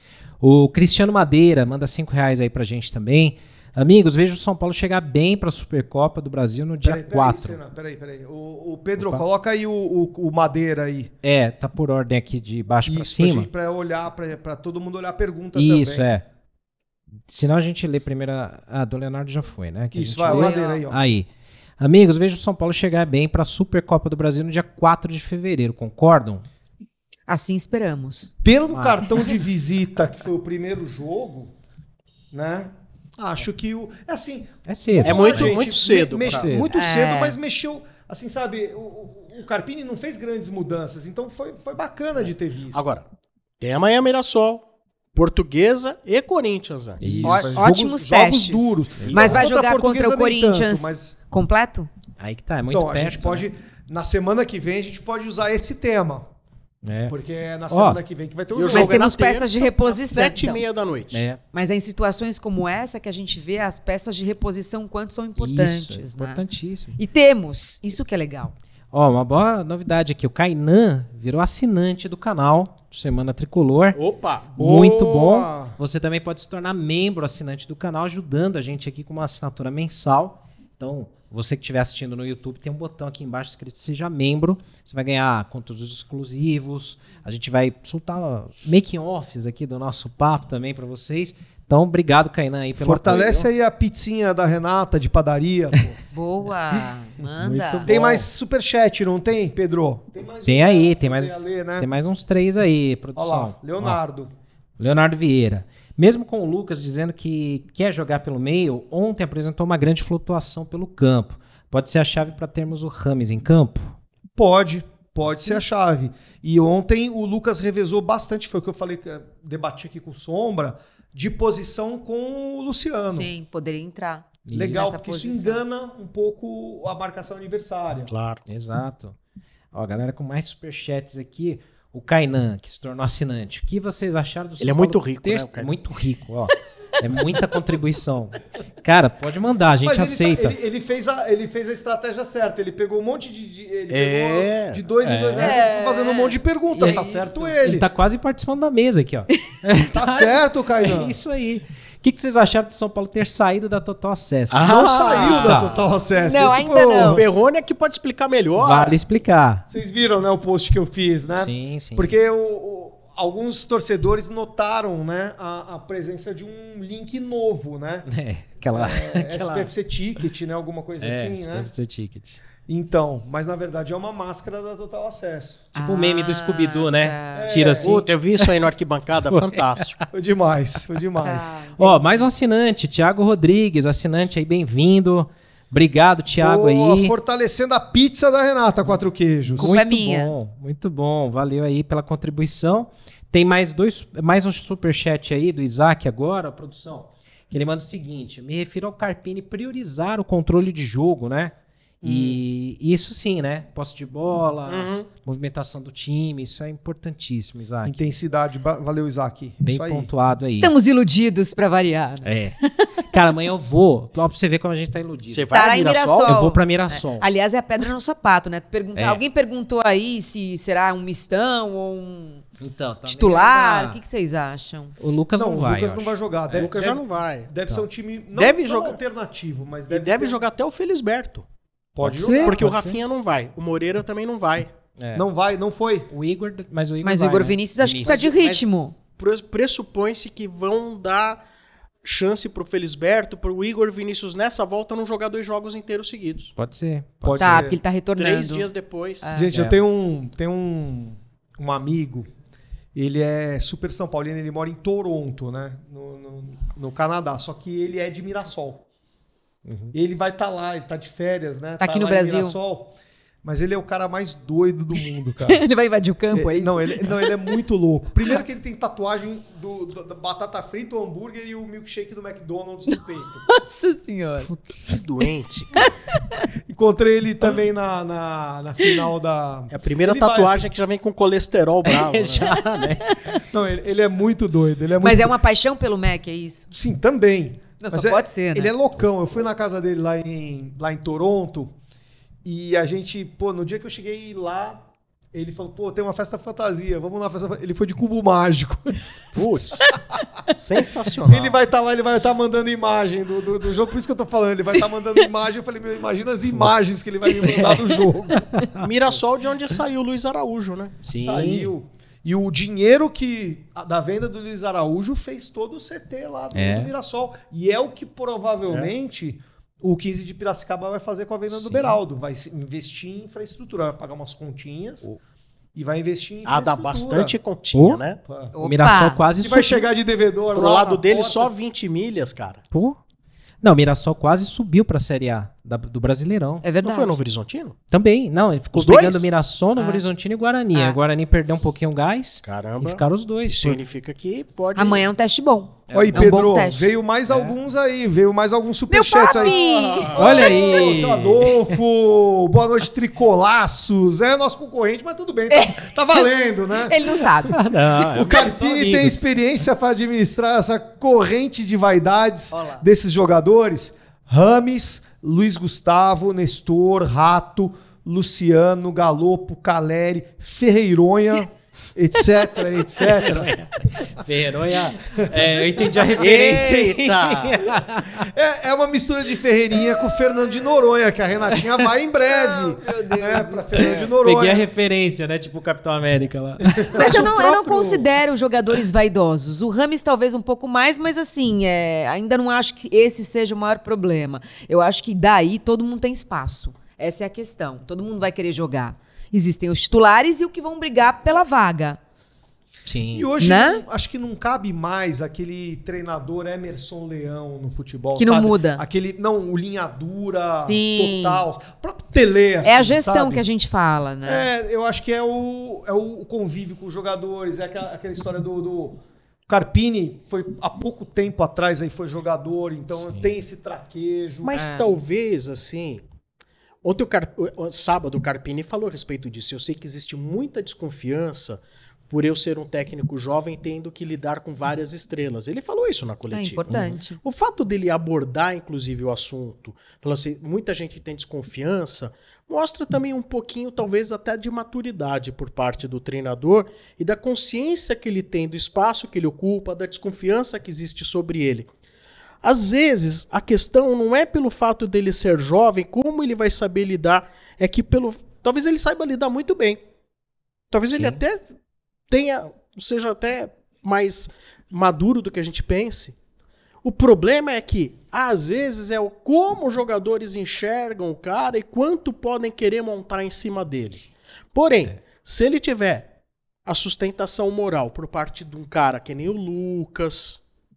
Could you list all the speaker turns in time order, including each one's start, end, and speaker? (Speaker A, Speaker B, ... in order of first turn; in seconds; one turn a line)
Speaker A: 0.4-7.6
Speaker B: 6.8-11.1
Speaker A: 9.0-9.2
Speaker A: 11.2-13.5
Speaker B: 12.8-16.1
Speaker A: 15.6-16.2
Speaker A: 17.3-21.3
Speaker B: 19.9-21.0
Speaker C: 20.2-20.8
Speaker A: 21.8-26.4
Speaker C: 27.3-28.3
Speaker B: 28.4-31.5
Speaker A: 28.7-29.1
Speaker B: 32.3-42.8
Speaker A: 34.6-36.7
Speaker D: 35.0-36.5
Speaker C: 36.7-37.4
Speaker D: 42.7-43.0
Speaker D: 43.6-44.6
Speaker D: 45.1-47.2
Speaker A: 47.0-47.6
Speaker B: 47.0-51.1
Speaker C: 47.2-51.9
Speaker D: 49.0-49.4
Speaker A: 49.0-49.4
Speaker A: 52.2-53.4
Speaker B: 52.7-56.3
Speaker A: 56.8-57.1
Speaker B: 57.1-59.1
Speaker A: 57.7-58.0
Speaker D: 58.5-61.2
Speaker C: 58.7-60.6
Speaker A: 61.1-61.4
Speaker C: 61.5-66.4
Speaker A: 65.4-67.0
Speaker C: 67.0-68.5
Speaker A: 68.9-74.0
Speaker D: 73.9-74.5
Speaker B: 74.6-75.8
Speaker A: 74.6-93.5
Speaker B: 92.8-96.0
Speaker C: 96.1-97.9
Speaker A: 97.4-98.2
Speaker B: 97.8-101.9
Speaker A: 100.5-104.0
Speaker B: 103.2-104.3
Speaker A: 104.8-114.0
Speaker B: 114.4-123.3
Speaker C: 123.1-125.6
Speaker A: 124.5-124.8
Speaker B: 124.5-128.1
Speaker D: 128.1-128.4
Speaker A: 128.5-129.2
Speaker A: 129.7-140.5
Speaker D: 134.6-135.7
Speaker B: 139.8-147.8
Speaker D: 143.9-144.8
Speaker A: 145.0-145.6
Speaker C: 145.3-147.5
Speaker A: 146.8-155.7
Speaker B: 149.9-151.2
Speaker D: 154.5-155.8
Speaker B: 154.7-157.2
Speaker C: 155.2-155.5
Speaker C: 156.2-157.2
Speaker D: 157.0-159.0
Speaker A: 158.6-159.6
Speaker B: 159.7-168.1
Speaker A: 161.4-162.1
Speaker A: 168.1-169.7
Speaker B: 168.7-171.7
Speaker A: 171.0-172.4
Speaker B: 172.7-175.7
Speaker C: 175.7-177.5
Speaker A: 175.8-178.5
Speaker B: 177.3-178.0
Speaker D: 177.8-180.0
Speaker A: 179.3-179.8
Speaker B: 180.1-181.5
Speaker C: 181.2-182.3
Speaker A: 181.8-187.1
Speaker B: 186.4-189.7
Speaker A: 188.8-207.9
Speaker C: 189.6-190.3
Speaker B: 202.0-202.4
Speaker D: 204.7-205.1
Speaker B: 207.8-210.1
Speaker A: 209.6-210.7
Speaker C: 210.5-213.0
Speaker A: 212.2-212.6
Speaker A: 213.1-217.3
Speaker D: 215.3-216.5
Speaker C: 215.5-222.4
Speaker A: 218.9-219.2
Speaker A: 222.6-224.0
Speaker C: 223.0-225.0
Speaker A: 225.0-226.1
Speaker B: 225.3-230.4
Speaker D: 226.5-227.5
Speaker D: 228.3-229.0
Speaker D: 229.9-231.4
Speaker B: 231.9-232.7
Speaker A: 232.0-233.0
Speaker D: 232.2-234.7
Speaker A: 235.0-235.3
Speaker B: 235.1-236.1
Speaker A: 236.1-238.3
Speaker C: 237.0-238.9
Speaker D: 238.0-241.4
Speaker D: 242.0-246.6
Speaker A: 246.6-247.7
Speaker B: 247.2-247.8
Speaker C: 247.4-248.7
Speaker D: 248.2-249.3
Speaker C: 249.2-249.5
Speaker B: 249.3-252.3
Speaker A: 249.5-249.8
Speaker B: 252.9-258.8
Speaker A: 259.6-259.9
Speaker B: 259.9-265.6
Speaker C: 261.8-262.6
Speaker C: 265.5-267.5
Speaker B: 266.3-273.5
Speaker C: 273.5-274.5
Speaker D: 274.5-275.8
Speaker C: 275.7-276.4
Speaker B: 276.6-280.7
Speaker D: 279.7-282.6
Speaker A: 281.9-283.1
Speaker C: 282.5-283.4
Speaker B: 283.5-285.4
Speaker C: 285.0-286.7
Speaker B: 286.7-291.8
Speaker C: 287.8-288.7
Speaker B: 292.4-299.1
Speaker D: 299.3-299.9
Speaker D: 300.5-301.6
Speaker B: 301.2-308.4
Speaker A: 306.5-306.9
Speaker A: 308.3-308.9
Speaker D: 308.8-311.0
Speaker A: 311.0-311.7
Speaker B: 311.1-325.1
Speaker A: 316.5-316.9
Speaker A: 321.5-322.0
Speaker B: 325.7-327.4
Speaker D: 326.4-328.2
Speaker A: 327.7-328.0
Speaker B: 328.2-328.5
Speaker C: 328.5-329.2
Speaker A: 328.6-329.8
Speaker B: 329.4-331.5
Speaker D: 330.5-332.6
Speaker A: 332.7-333.0
Speaker A: 333.6-336.6
Speaker C: 336.6-337.2
Speaker D: 336.8-337.8
Speaker A: 337.9-343.8
Speaker D: 338.7-339.3
Speaker C: 339.8-340.0
Speaker D: 342.4-345.0
Speaker C: 344.7-346.9
Speaker A: 345.9-346.6
Speaker B: 345.9-357.2
Speaker A: 347.3-347.6
Speaker C: 348.9-350.9
Speaker D: 349.3-350.5
Speaker A: 350.1-351.7
Speaker C: 355.5-355.8
Speaker C: 356.8-357.6
Speaker A: 357.5-359.2
Speaker B: 358.0-374.2
Speaker C: 362.5-362.8
Speaker A: 373.0-378.3
Speaker B: 375.0-376.1
Speaker D: 376.1-377.7
Speaker B: 377.8-384.7
Speaker C: 382.2-384.1
Speaker A: 383.8-387.2
Speaker B: 386.6-388.0
Speaker C: 386.9-402.0
Speaker A: 402.9-403.3
Speaker B: 403.1-413.4
Speaker C: 403.4-403.8
Speaker C: 408.1-408.8
Speaker C: 410.6-411.4
Speaker C: 412.6-414.5
Speaker B: 414.2-424.8
Speaker A: 422.9-423.3
Speaker D: 424.4-426.0
Speaker D: 426.8-451.7
Speaker C: 436.3-437.2
Speaker D: 452.4-459.8
Speaker D: 460.7-461.4
Speaker A: 460.9-461.2
Speaker D: 462.1-466.1
Speaker D: 466.8-474.0
Speaker D: 474.5-476.1
Speaker D: 476.6-480.4